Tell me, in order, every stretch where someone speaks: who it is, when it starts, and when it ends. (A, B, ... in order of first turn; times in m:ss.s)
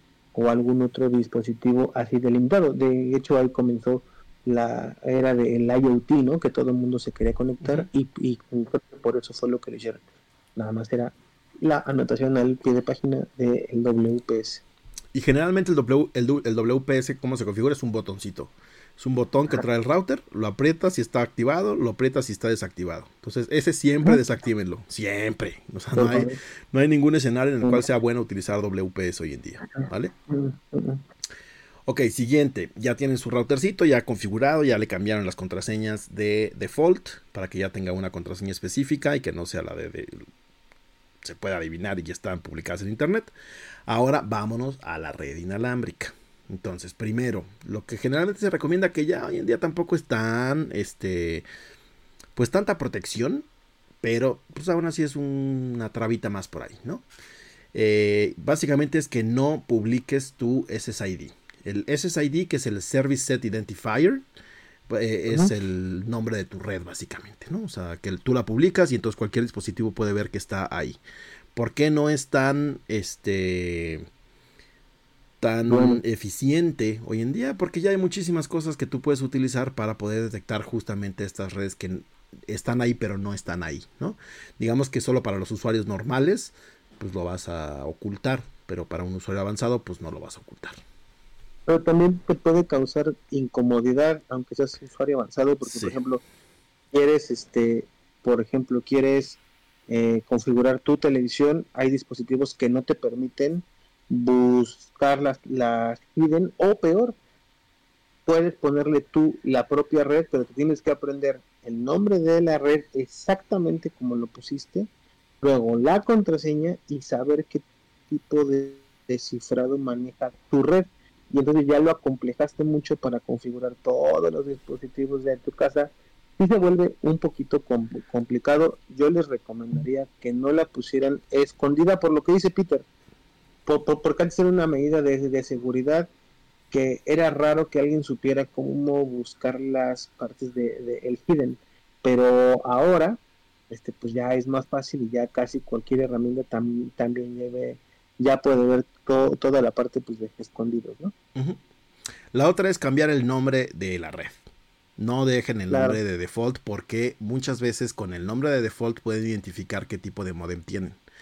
0:00.3-0:10.0 A
0:10.6-0:14.6 A
0:15.1-0:30.1 B
0:25.9-0:26.3 A
0:29.8-0:31.0 A
0:31.8-0:40.2 B
0:41.2-0:43.3 B
0:43.9-0:51.4 B
0:52.4-0:53.4 B
0:54.0-0:57.0 B
0:57.7-1:04.2 B
1:04.9-1:11.0 B
1:11.6-1:14.0 B
1:15.4-1:30.8 B
1:15.7-1:16.0 A
1:31.7-1:36.2 A
1:35.6-1:36.0 B
1:36.9-1:47.2 A
1:48.2-1:54.9 A
1:55.4-2:12.8 A
2:13.6-2:16.1 A
2:16.7-2:23.2 A
2:23.7-2:31.1 A
2:32.3-2:34.4 B
2:35.0-2:41.0 B
2:35.7-2:36.0 A